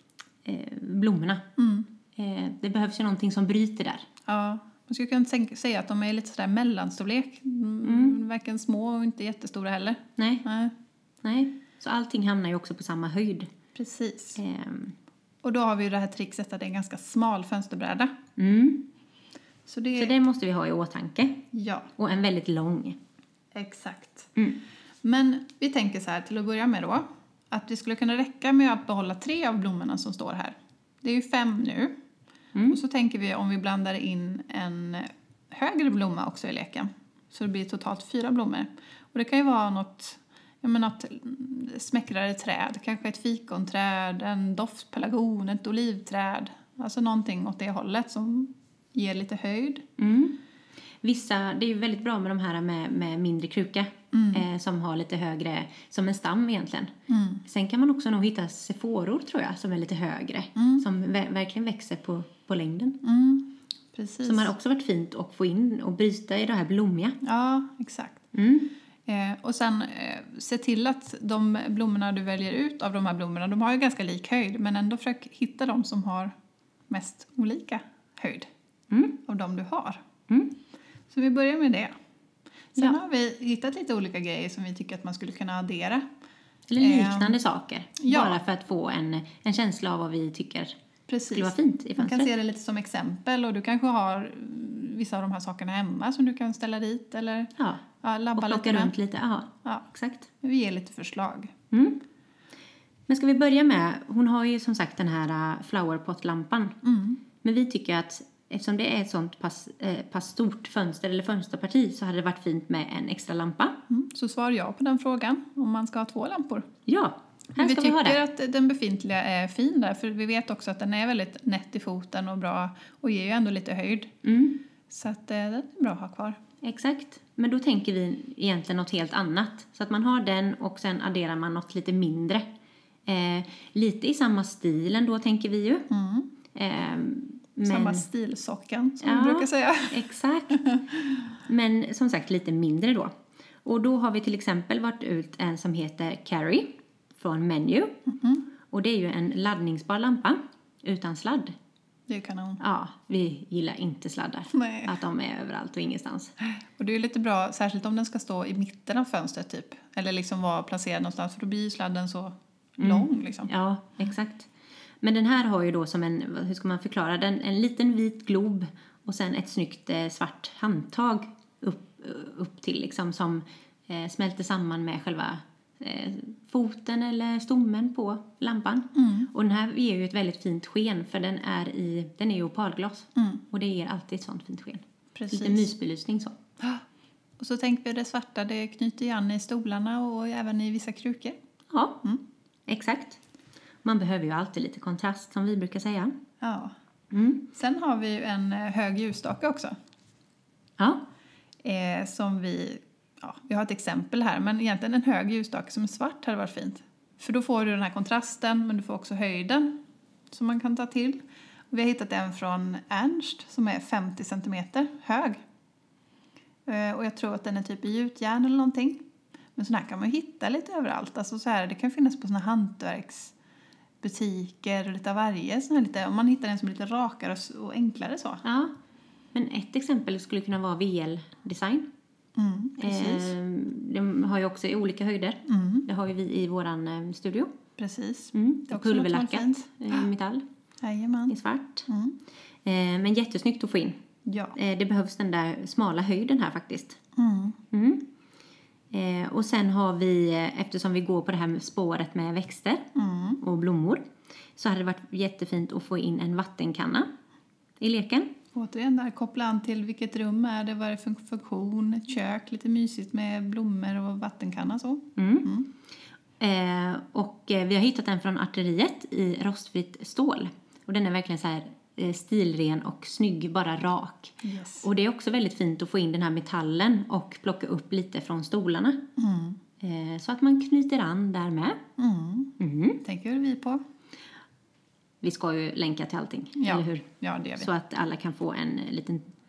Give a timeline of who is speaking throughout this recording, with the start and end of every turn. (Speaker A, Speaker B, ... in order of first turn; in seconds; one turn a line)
Speaker A: 0.5-1.5
Speaker B: 1.6-1.9
Speaker A: 2.1-4.1
Speaker B: 4.3-10.7
Speaker A: 7.8-8.2
Speaker A: 10.2-10.4
Speaker A: 11.2-13.5
Speaker B: 13.8-14.4
Speaker A: 14.4-15.0
Speaker B: 15.4-18.1
Speaker A: 18.4-18.9
Speaker B: 19.7-20.1
Speaker A: 19.9-23.0
Speaker B: 21.5-21.9
Speaker B: 23.6-24.3
Speaker B: 25.0-31.9
Speaker B: 32.7-49.9
Speaker A: 50.0-50.4
Speaker A: 51.0-56.9
Speaker B: 54.1-54.4
Speaker B: 57.1-57.4
Speaker A: 57.5-63.0
Speaker B: 60.6-60.8
Speaker B: 63.0-64.5
Speaker A: 64.2-67.2
Speaker B: 67.2-68.2
Speaker A: 68.3-68.7
Speaker B: 69.1-76.3
Speaker B: 76.9-78.5
Speaker A: 78.9-79.2
Speaker B: 79.2-80.0
Speaker A: 80.3-80.5
Speaker B: 81.1-81.9
Speaker B: 82.8-86.0
Speaker A: 86.7-90.8
Speaker B: 86.8-87.4
Speaker B: 88.0-88.4
Speaker B: 91.1-98.9
Speaker A: 91.3-92.3
Speaker A: 97.6-97.8
Speaker A: 98.3-100.3
Speaker B: 100.4-101.5
Speaker A: 101.7-102.0
Speaker A: 103.1-106.8
Speaker B: 106.8-107.2
Speaker A: 107.4-113.8
Speaker B: 113.9-116.7
Speaker A: 116.9-118.2
Speaker B: 117.6-124.2
Speaker A: 124.2-124.6
Speaker B: 124.9-126.4
Speaker A: 126.6-132.4
Speaker A: 133.1-135.9
Speaker B: 135.9-136.3
Speaker A: 136.5-138.1
Speaker B: 137.6-140.0
Speaker A: 139.0-140.7
Speaker B: 140.5-141.1
Speaker A: 141.5-148.0
Speaker B: 148.1-148.5
Speaker A: 148.7-151.6
Speaker B: 152.1-152.6
Speaker A: 152.6-156.3
Speaker B: 154.5-154.9
Speaker B: 156.8-163.5
Speaker A: 162.8-164.5
Speaker A: 165.0-186.4
Speaker B: 178.9-179.3
Speaker B: 183.2-183.4
Speaker B: 185.2-185.7
Speaker B: 187.4-191.4
Speaker A: 191.7-192.0
Speaker A: 192.7-193.2
Speaker A: 193.8-196.2
Speaker B: 196.4-196.7
Speaker A: 197.1-197.4
Speaker B: 197.5-199.8
Speaker A: 200.8-201.0
Speaker B: 201.6-209.8
Speaker B: 210.3-215.4
Speaker B: 216.7-219.0
Speaker B: 219.6-223.3
Speaker B: 224.0-228.4
Speaker A: 228.4-228.7
Speaker A: 229.3-231.9
Speaker B: 232.4-233.3
Speaker A: 232.8-237.5
Speaker B: 235.5-235.9
Speaker B: 237.8-240.1
Speaker A: 238.3-240.4
Speaker B: 240.8-241.4
Speaker A: 241.3-241.9
Speaker B: 241.9-242.2
Speaker A: 242.6-244.0
Speaker B: 244.2-244.6
Speaker A: 244.6-247.0
Speaker B: 247.2-247.6
Speaker A: 247.7-248.1
Speaker A: 248.9-252.9
Speaker B: 252.9-253.4
Speaker A: 253.4-254.0
Speaker A: 254.6-257.1
Speaker A: 257.8-258.3
Speaker B: 258.6-265.7
Speaker A: 265.2-265.5
Speaker A: 266.4-279.0
Speaker B: 274.4-274.9
Speaker B: 279.2-279.6
Speaker A: 279.8-281.8
Speaker B: 282.0-283.8
Speaker A: 282.6-283.0
Speaker A: 285.2-287.1
Speaker B: 286.6-287.7
Speaker A: 287.6-289.3